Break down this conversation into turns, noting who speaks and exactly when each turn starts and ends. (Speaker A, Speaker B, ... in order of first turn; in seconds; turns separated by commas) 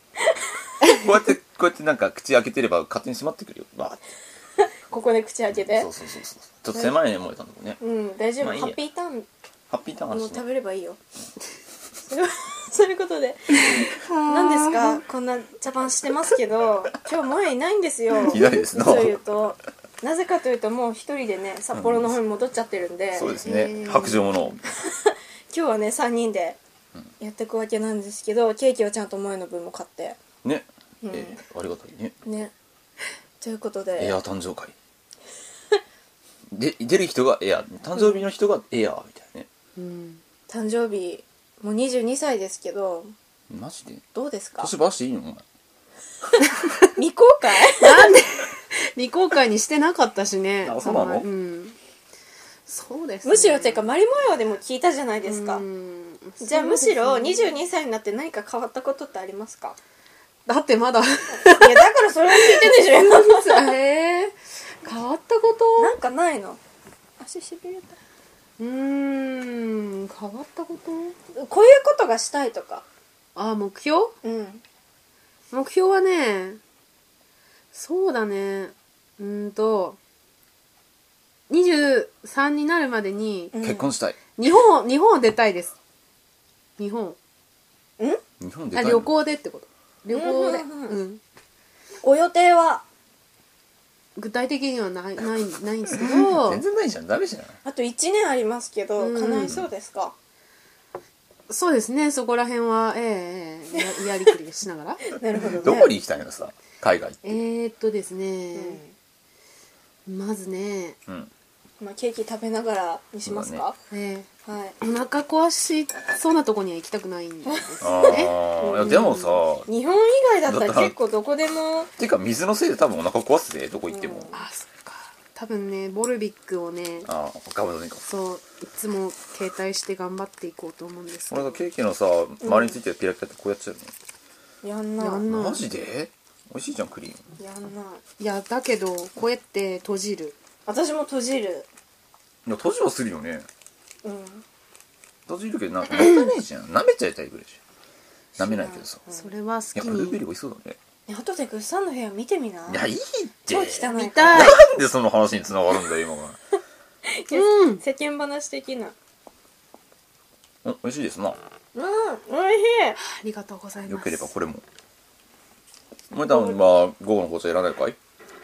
Speaker A: 0.9-4.0, Speaker B: 4.9-5.9, Speaker A: 5.7-7.8, Speaker B: 7.8-9.3, Speaker A: 8.4-8.8, Speaker A: 9.7-10.4, Speaker B: 10.1-11.0, Speaker B: 12.1-23.4, Speaker C: 13.7-15.0, Speaker A: 18.2-19.2, Speaker A: 21.7-22.1, Speaker A: 23.1-24.6, Speaker C: 23.4-24.6, Speaker B: 24.8-26.6, Speaker B: 27.2-30.2, Speaker A: 30.4-32.1, Speaker B: 31.0-31.4, Speaker B: 32.2-32.5, Speaker B: 33.4-34.2, Speaker A: 34.0-34.7, Speaker A: 36.5-39.5, Speaker C: 39.8-40.2, Speaker B: 40.5-43.1, Speaker A: 43.5-44.0, Speaker B: 44.1-44.7, Speaker A: 44.6-45.4, Speaker B: 46.9-48.1, Speaker C: 47.8-51.8, Speaker A: 50.6-51.3, Speaker C: 52.6-53.9, Speaker B: 53.2-55.6, Speaker C: 55.2-57.5, Speaker B: 56.4-59.8, Speaker C: 60.5-65.9, Speaker B: 61.4-63.7, Speaker B: 65.8-66.6, Speaker B: 67.2-68.0, Speaker C: 68.6-71.2, Speaker B: 71.3-72.8, Speaker C: 73.3-74.1, Speaker B: 74.2-74.6, Speaker C: 75.5-76.6, Speaker C: 77.7-80.0, Speaker C: 81.5-83.5, Speaker B: 83.5-83.9, Speaker A: 83.6-84.2, Speaker C: 84.4-85.8, Speaker C: 86.8-87.2, Speaker A: 88.4-89.1, Speaker C: 88.7-91.2, Speaker B: 90.1-91.0, Speaker B: 92.0-92.8, Speaker C: 94.2-96.6, Speaker A: 95.9-97.6, Speaker B: 97.6-100.1, Speaker C: 99.0-99.6, Speaker C: 101.5-105.1, Speaker B: 105.1-105.9, Speaker A: 105.6-107.4, Speaker C: 107.2-108.8, Speaker B: 108.5-108.9, Speaker C: 110.1-111.0, Speaker B: 111.8-113.8, Speaker A: 113.2-113.7, Speaker C: 113.9-114.3, Speaker B: 114.5-114.8, Speaker C: 114.8-119.4, Speaker B: 117.4-119.1, Speaker A: 117.8-119.7, Speaker B: 119.7-121.9, Speaker A: 120.5-120.9, Speaker A: 122.0-124.3, Speaker B: 123.9-124.4, Speaker C: 124.3-127.1, Speaker A: 127.0-128.0, Speaker C: 128.0-131.6, Speaker A: 131.3-133.9, Speaker B: 132.4-132.8, Speaker B: 134.6-135.3, Speaker C: 135.0-135.6, Speaker A: 135.2-137.2, Speaker B: 137.4-138.0, Speaker C: 138.2-140.3, Speaker B: 140.7-141.7, Speaker A: 142.4-143.5, Speaker B: 144.0-144.4, Speaker A: 145.3-147.6, Speaker A: 148.4-149.0, Speaker B: 148.4-149.3, Speaker C: 149.1-150.2, Speaker A: 149.7-150.8, Speaker B: 151.1-152.9, Speaker A: 152.7-156.4, Speaker B: 153.5-154.6, Speaker C: 153.9-154.6, Speaker B: 157.1-158.9, Speaker C: 157.3-157.8, Speaker A: 160.6-161.4, Speaker B: 161.7-163.0, Speaker C: 163.0-164.3, Speaker A: 163.9-164.6, Speaker A: 166.1-168.0, Speaker B: 166.2-166.8